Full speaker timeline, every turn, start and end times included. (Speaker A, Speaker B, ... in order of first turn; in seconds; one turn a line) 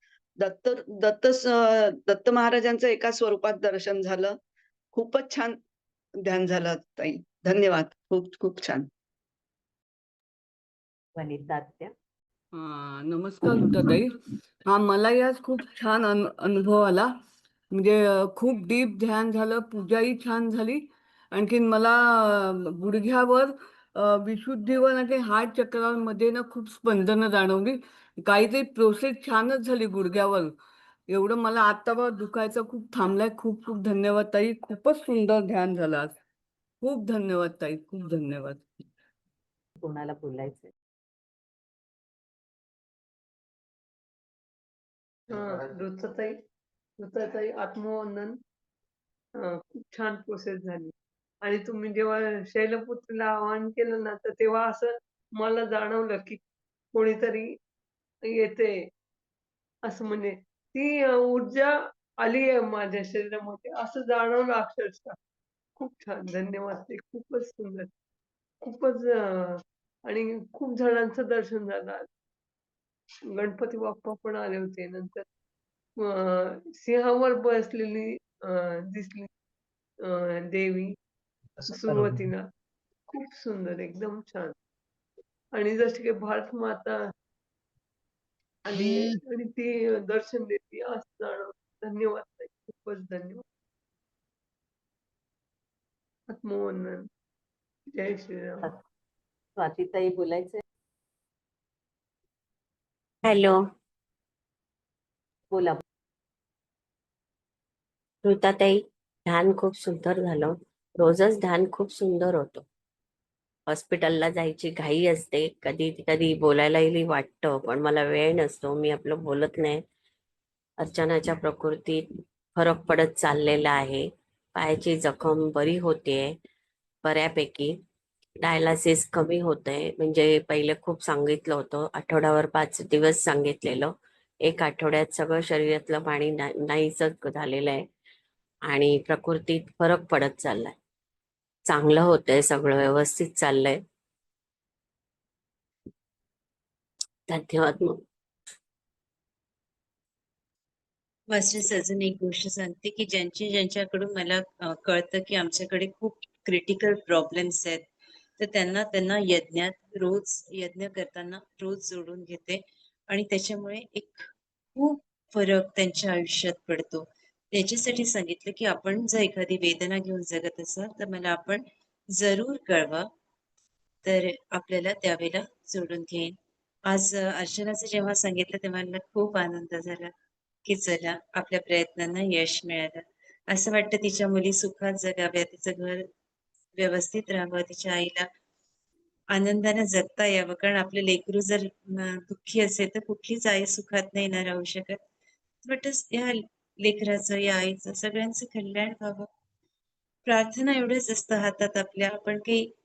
Speaker A: 0.4-4.3
Speaker A: 4.9-5.5
Speaker A: 6.2-8.9
Speaker B: 11.1-11.9
Speaker C: 12.5-13.9
Speaker C: 14.7-17.1
Speaker C: 17.8-20.7
Speaker C: 21.4-30.5
Speaker C: 31.2-36.1
Speaker C: 36.8-38.6
Speaker B: 39.8-40.7
Speaker D: 45.3-46.4
Speaker D: 47.0-48.4
Speaker D: 49.4-50.9
Speaker D: 51.4-56.4
Speaker D: 56.9-57.5
Speaker D: 58.2-58.9
Speaker D: 59.9-65.2
Speaker D: 65.8-67.9
Speaker D: 68.7-69.5
Speaker D: 70.1-72.1
Speaker D: 73.3-75.2
Speaker D: 76.0-79.3
Speaker D: 80.0-80.9
Speaker D: 81.6-82.5
Speaker D: 83.1-84.5
Speaker D: 85.5-87.0
Speaker D: 88.7-93.4
Speaker D: 96.3-97.0
Speaker D: 97.9-98.7
Speaker B: 99.5-100.6
Speaker E: 103.2-103.6
Speaker B: 105.5-105.8
Speaker E: 108.2-112.6
Speaker E: 113.7-119.8
Speaker E: 120.8-122.0
Speaker E: 122.5-126.3
Speaker E: 127.0-127.8
Speaker E: 128.4-137.8
Speaker E: 138.7-140.8
Speaker E: 141.7-143.8
Speaker E: 147.3-148.0
Speaker F: 151.3-157.8
Speaker F: 158.4-164.2
Speaker F: 164.8-171.6
Speaker F: 172.2-173.1
Speaker F: 174.0-176.3
Speaker F: 176.9-180.1
Speaker F: 180.7-186.0
Speaker F: 186.8-188.2
Speaker F: 189.3-195.0
Speaker F: 195.6-199.3
Speaker F: 200.2-202.6